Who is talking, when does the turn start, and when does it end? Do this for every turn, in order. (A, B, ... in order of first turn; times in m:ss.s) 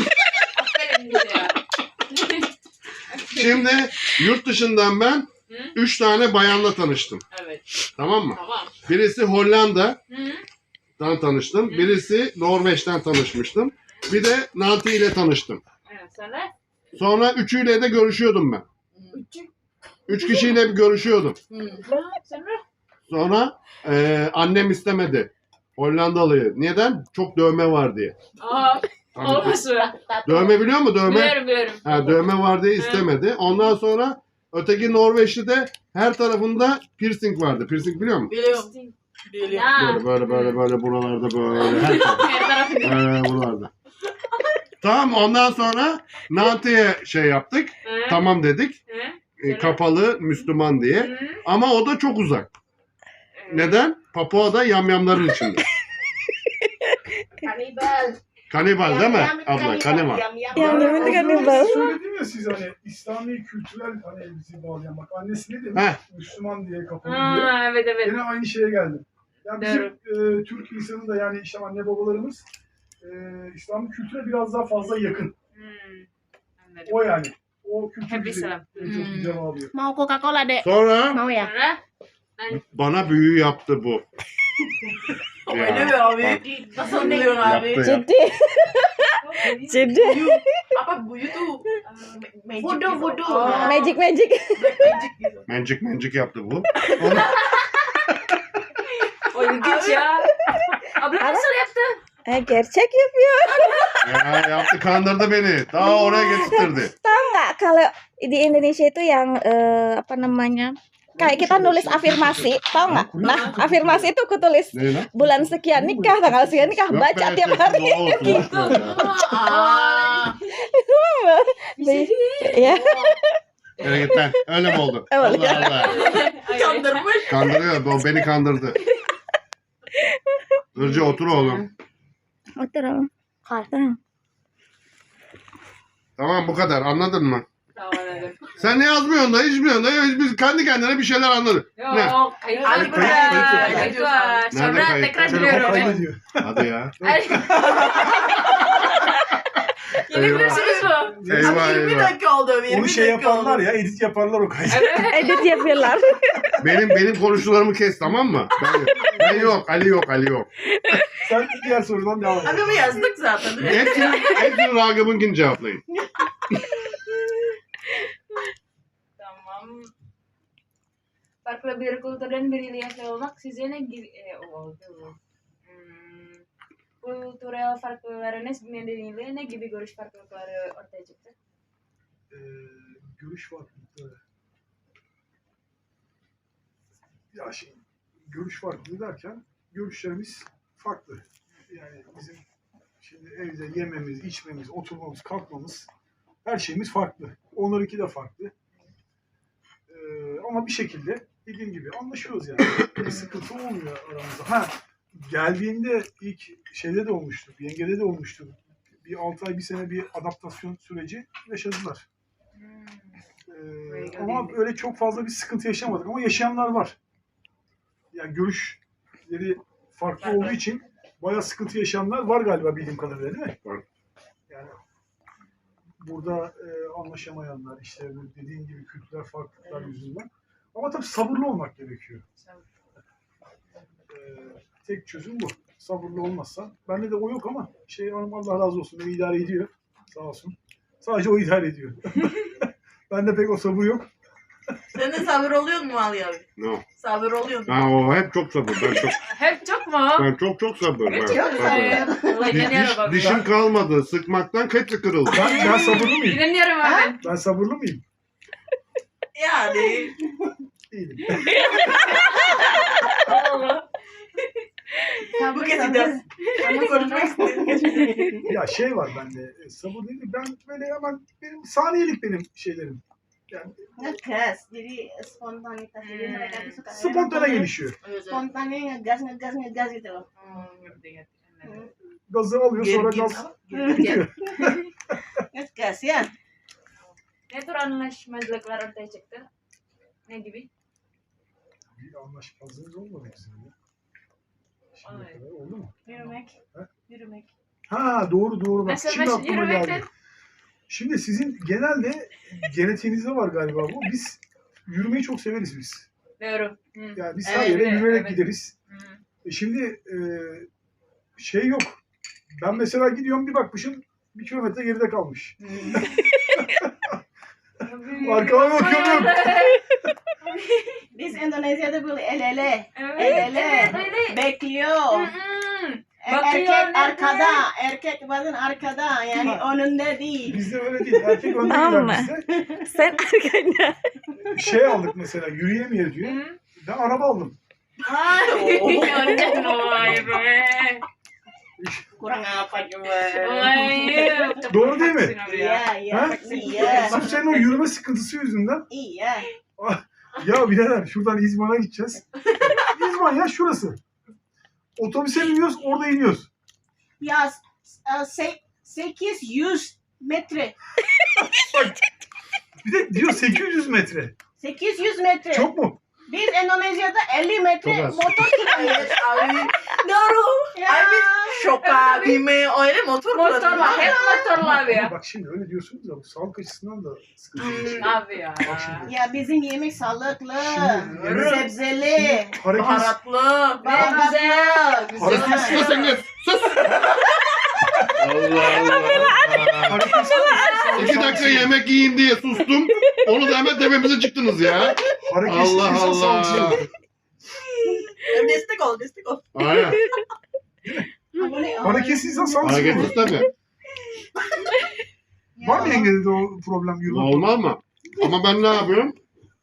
0:00.5-0:02.5 A
0:03.1-0:03.7 A
0:03.3-0:07.2 B
0:05.5-0:05.8 A
0:07.3-0:07.6 A
0:08.0-0:10.0 B
0:08.4-0:08.7 C
0:08.4-0:08.7 A
0:10.1-0:10.4 A
0:11.0-0:15.6 B
0:11.7-0:12.0 A
0:15.9-0:16.5 A
0:16.9-0:18.6 B
0:18.9-0:19.2 C
0:19.1-0:19.5 A
0:20.1-0:21.4 B
0:20.1-0:20.6 A
0:21.5-0:21.9 C
0:21.8-0:22.6 A
0:23.1-0:28.2 B
0:28.4-0:30.0 A
0:29.2-0:29.6 B
0:29.7-0:30.5 D
0:30.2-0:38.3 B
0:30.9-0:33.5 A
0:38.3-0:38.7 C
0:38.4-0:40.6 A
0:39.3-0:39.8 C
0:39.8-0:42.3 B
0:41.6-0:43.0 A
0:42.8-0:43.7 B
0:44.8-0:48.8 B
0:47.8-0:48.3 A
0:48.9-0:49.8 A
0:49.4-0:52.5 B
0:51.0-0:51.4 A
0:53.4-0:53.8 A
0:53.5-0:55.6 B
0:57.4-0:58.2 D
0:58.5-1:00.2 B
0:58.8-1:01.7 D
1:00.5-1:12.5 E
1:00.6-1:01.9 F
1:01.6-1:02.0 A
1:05.7-1:06.0 B
1:07.0-1:08.2 A
1:09.6-1:10.0 A
1:13.0-1:15.4 E
1:15.6-1:16.1 A
1:16.6-1:17.2 A
1:16.9-1:19.7 E
1:18.1-1:19.0 A
1:18.8-1:19.5 C
1:19.7-1:21.5 D
1:20.6-1:21.2 B
1:21.3-1:21.8 A
1:22.4-1:22.6 A
1:22.5-1:24.0 B
1:25.5-1:28.0 C
1:25.5-1:26.4 B
1:26.4-1:27.4 D
1:27.4-1:28.0 B
1:27.8-1:30.4 F
1:29.2-1:30.0 A
1:29.9-1:31.7 C
1:31.8-1:32.2 A
1:32.2-1:33.8 D
1:32.6-1:33.8 C
1:33.2-1:34.0 A
1:33.5-1:34.8 F
1:34.6-1:35.4 C
1:35.5-1:37.3 B
1:37.1-1:38.2 A
1:39.2-1:42.0 A
1:39.4-1:40.2 C
1:41.2-1:41.5 F
1:42.3-1:44.2 F
1:44.0-1:46.9 B
1:45.8-1:58.5 F
1:51.2-1:54.1 E
1:53.2-1:53.6 A
1:54.7-1:55.1 B
1:55.2-1:56.9 E
1:56.9-1:59.1 B
1:58.2-2:00.4 A
1:58.8-2:00.4 C
2:00.7-2:03.4 F
2:01.8-2:03.1 A
2:03.8-2:06.1 B
2:04.1-2:06.0 F
2:05.4-2:07.3 A
2:06.0-2:07.6 C
2:07.3-2:08.8 B
2:10.8-2:11.7 B
2:10.8-2:11.7 A
2:12.6-2:14.0 F
2:16.2-2:17.4 B
2:17.8-2:18.7 A
2:18.6-2:22.2 B
2:21.8-2:26.1 A
2:22.5-2:23.9 D
2:22.6-2:24.5 C
2:22.8-2:23.8 E
2:24.5-2:25.6 B
2:25.2-2:28.0 E
2:26.4-2:27.0 B
2:27.0-2:29.1 A
2:27.6-2:28.7 C
2:29.9-2:31.2 A
2:30.1-2:30.7 B
2:30.2-2:33.8 C
2:30.9-2:31.9 E
2:31.3-2:32.2 B
2:32.6-2:35.9 E
2:34.7-2:35.4 A
2:34.9-2:36.5 F
2:36.6-2:40.5 B
2:38.1-2:38.4 E
2:39.0-2:39.6 E
2:40.9-2:41.2 F
2:41.2-2:43.1 E
2:42.4-2:44.3 C
2:43.6-2:45.8 B
2:44.0-2:44.5 A
2:49.2-2:49.9 A
2:51.4-2:56.4 A
2:57.0-3:01.4 A
3:02.3-3:04.2 E
3:07.3-3:12.4 E
3:13.0-3:15.9 E
3:16.4-3:18.5 E
3:19.9-3:32.1 E
3:23.0-3:23.4 A
3:32.6-3:33.2 A
3:33.5-3:37.0 E
3:33.9-3:34.6 A
3:38.1-3:43.6 E
3:40.2-3:40.7 A
3:44.5-3:44.8 E
3:46.0-3:52.2 E
3:49.7-3:50.0 A
3:52.4-3:52.6 A
3:54.1-4:04.1 E
4:04.9-4:07.8 C
4:06.6-4:06.8 B
4:07.7-4:09.2 B
4:09.2-4:10.3 A
4:10.2-4:15.5 B
4:11.0-4:13.4 A
4:11.2-4:12.8 D
4:13.1-4:13.4 E
4:15.3-4:16.5 E
4:15.4-4:17.2 A
4:16.8-4:17.1 D
4:17.2-4:18.0 E
4:19.4-4:20.2 C
4:20.9-4:22.1 E
4:21.8-4:23.8 A
4:25.2-4:28.5 D
4:25.5-4:28.3 C
4:26.6-4:27.0 A
4:28.4-4:34.1 E
4:34.0-4:37.8 D
4:36.0-4:36.8 A
4:36.9-4:38.0 E
4:38.0-4:38.4 C
4:38.3-4:40.3 D
4:40.4-4:40.7 C
4:40.5-4:41.9 A
4:41.6-4:41.9 D
4:42.3-4:45.4 E
4:42.7-4:44.2 C
4:43.7-4:44.6 D
4:44.0-4:44.8 A
4:45.5-4:46.3 D
4:47.0-4:49.5 A
4:50.3-4:50.7 A
4:52.0-4:53.7 E
4:54.9-4:56.0 E
4:55.0-4:55.4 A
4:56.0-4:57.5 D
4:57.9-5:00.1 E
4:58.8-5:00.0 A
5:00.9-5:06.1 E
5:06.4-5:09.2 A
5:07.2-5:08.7 E
5:07.4-5:08.0 C
5:09.4-5:10.7 E
5:11.4-5:12.0 E
5:12.5-5:17.2 E
5:15.6-5:16.0 C
5:16.2-5:16.7 F
5:17.8-5:19.8 A
5:18.2-5:19.7 E
5:21.1-5:25.3 D
5:23.0-5:24.4 A
5:23.7-5:24.0 E
5:25.1-5:27.6 A
5:26.2-5:31.9 D
5:30.5-5:32.5 E
5:31.7-5:34.1 F
5:32.5-5:33.2 D
5:34.4-5:37.6 E
5:34.6-5:34.9 F
5:36.2-5:36.6 A
5:38.0-5:39.9 C
5:38.3-5:41.0 A
5:39.9-5:40.2 E
5:41.8-5:42.2 E
5:42.2-5:44.6 D
5:43.4-5:47.6 A
5:44.7-5:45.4 E
5:45.4-5:47.4 D
5:46.1-5:48.9 E
5:46.7-5:47.6 C
5:48.9-5:49.5 D
5:49.8-5:54.0 E
5:55.0-5:56.5 E
5:57.2-6:00.8 D
6:01.6-6:02.0 E
6:02.8-6:04.4 E
6:04.6-6:05.7 D
6:05.5-6:06.0 E
6:06.3-6:09.7 D
6:07.8-6:08.5 B
6:08.6-6:14.2 C
6:10.7-6:11.7 D
6:11.8-6:12.4 A
6:13.3-6:15.1 A
6:13.7-6:14.6 D
6:14.5-6:19.2 E
6:17.6-6:18.0 C
6:17.8-6:19.1 A
6:19.0-6:22.6 D
6:20.5-6:23.2 E
6:21.1-6:21.6 C
6:22.7-6:24.3 C
6:23.8-6:25.9 D
6:23.8-6:25.9 A
6:24.9-6:26.2 C
6:25.1-6:25.6 E
6:25.2-6:27.1 B
6:27.1-6:27.8 C
6:28.0-6:31.8 E
6:28.2-6:30.1 B
6:29.0-6:29.4 F
6:30.1-6:31.0 F
6:31.0-6:36.8 B
6:35.2-6:36.8 E
6:38.1-6:39.9 C
6:39.5-6:40.0 B
6:40.8-6:41.3 E
6:41.4-6:43.1 D
6:41.8-6:43.2 E
6:42.6-6:43.5 B
6:45.6-6:46.1 D
6:45.6-6:47.6 E
6:47.1-6:49.2 B